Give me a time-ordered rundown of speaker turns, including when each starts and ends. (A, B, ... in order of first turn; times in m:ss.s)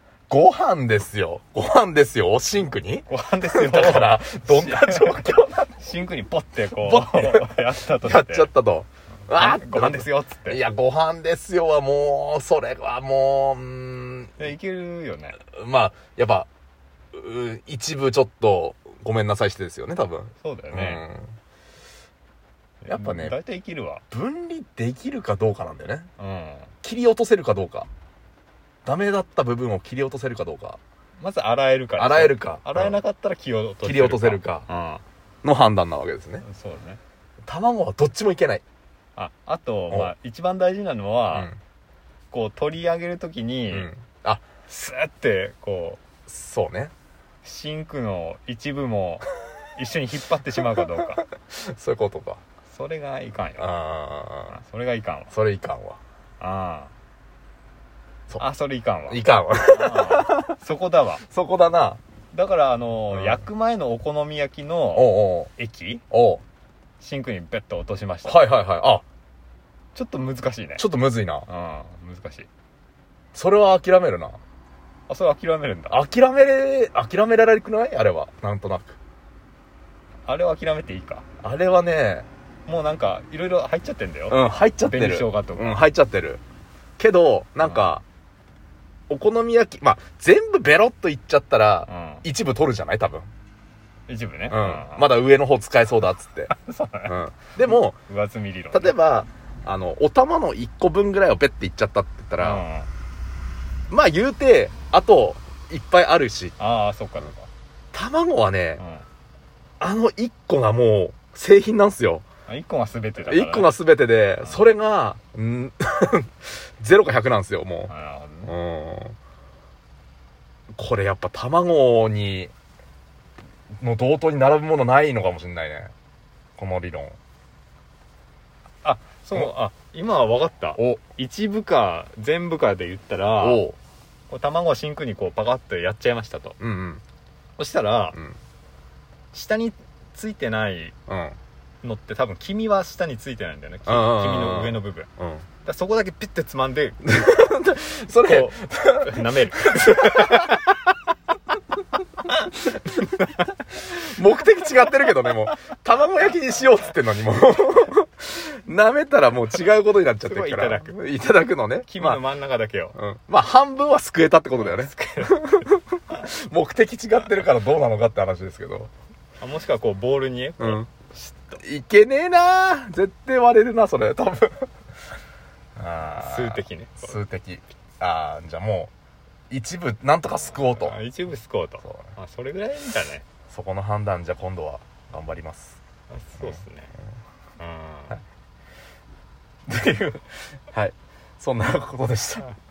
0:00.3-0:05.7 A
0:03.1-0:08.5 B
0:06.7-0:14.5 A
0:09.3-0:10.6 B
0:14.4-0:15.4 B
0:15.5-0:16.5 A
0:17.1-0:21.3 A
0:20.4-0:21.0 B
0:22.8-0:24.0 B
0:22.9-0:23.4 A
0:24.1-0:26.1 A
0:26.2-0:26.7 B
0:26.8-0:27.9 A
0:28.8-0:30.8 A
0:31.2-0:35.0 B
0:32.0-0:33.0 A
0:33.8-0:34.7 A
0:35.4-0:36.4 A
0:36.4-0:37.0 B
0:37.5-0:38.6 A
0:39.2-0:41.5 B
0:41.3-0:41.6 A
0:42.3-0:43.9 B
0:43.7-0:44.4 A
0:44.6-0:46.0 B
0:46.3-0:46.9 A
0:47.4-0:51.2 B
0:50.7-0:52.4 A
0:52.7-0:53.7 B
0:53.6-0:54.6 A
0:54.5-0:55.3 B
0:55.3-0:56.0 A
0:56.4-0:56.9 B
0:58.4-1:01.2 B
0:59.1-1:00.6 A
1:01.3-1:02.0 A
1:02.3-1:06.0 B
1:03.1-1:03.4 A
1:04.9-1:05.5 A
1:06.1-1:06.4 A
1:07.0-1:08.5 B
1:08.2-1:09.0 A
1:10.0-1:10.9 B
1:10.8-1:11.5 A
1:11.5-1:12.5 B
1:13.3-1:14.4 A
1:15.1-1:16.0 B
1:15.9-1:19.0 A
1:20.3-1:21.2 B
1:21.4-1:22.3 A
1:22.7-1:25.8 B
1:24.3-1:26.4 A
1:27.0-1:28.0 A
1:27.6-1:27.9 B
1:29.1-1:33.3 A
1:31.9-1:32.2 B
1:34.1-1:35.1 B
1:34.5-1:36.5 A
1:36.5-1:37.2 B
1:37.1-1:38.0 A
1:37.7-1:38.9 B
1:38.7-1:42.6 A
1:42.4-1:42.9 B
1:43.9-1:46.6 A
1:46.6-1:47.5 B
1:47.9-1:48.8 A
1:48.8-1:49.0 B
1:49.8-1:52.2 A
1:52.5-1:53.7 B
1:53.2-1:57.9 A
1:54.4-1:54.7 B
1:57.9-1:58.5 B
1:58.5-1:59.2 A
2:00.7-2:02.5 A
2:03.8-2:05.9 A
2:06.6-2:07.2 A
2:08.8-2:13.6 B
2:10.8-2:11.0 A
2:13.4-2:13.8 A
2:14.3-2:16.6 B
2:16.6-2:17.0 A
2:17.6-2:18.2 B
2:19.3-2:21.0 B
2:21.1-2:21.4 A
2:21.8-2:25.1 B
2:23.9-2:25.4 A
2:25.6-2:27.3 B
2:27.0-2:30.6 A
2:28.2-2:30.9 B
2:32.2-2:33.5 B
2:32.7-2:33.1 A
2:33.8-2:42.2 A
2:40.2-2:41.0 B
2:41.9-2:43.0 B
2:43.0-2:48.9 A
2:44.6-2:46.2 B
2:49.4-2:51.6 B
2:50.6-2:50.9 A
2:51.6-2:54.7 A
2:55.8-2:58.9 A
2:56.2-2:57.2 B
2:59.5-3:01.0 A
3:00.5-3:03.2 B
3:01.8-3:02.1 A
3:03.5-3:05.8 A
3:06.1-3:06.9 B
3:07.6-3:08.2 B
3:09.7-3:12.6 A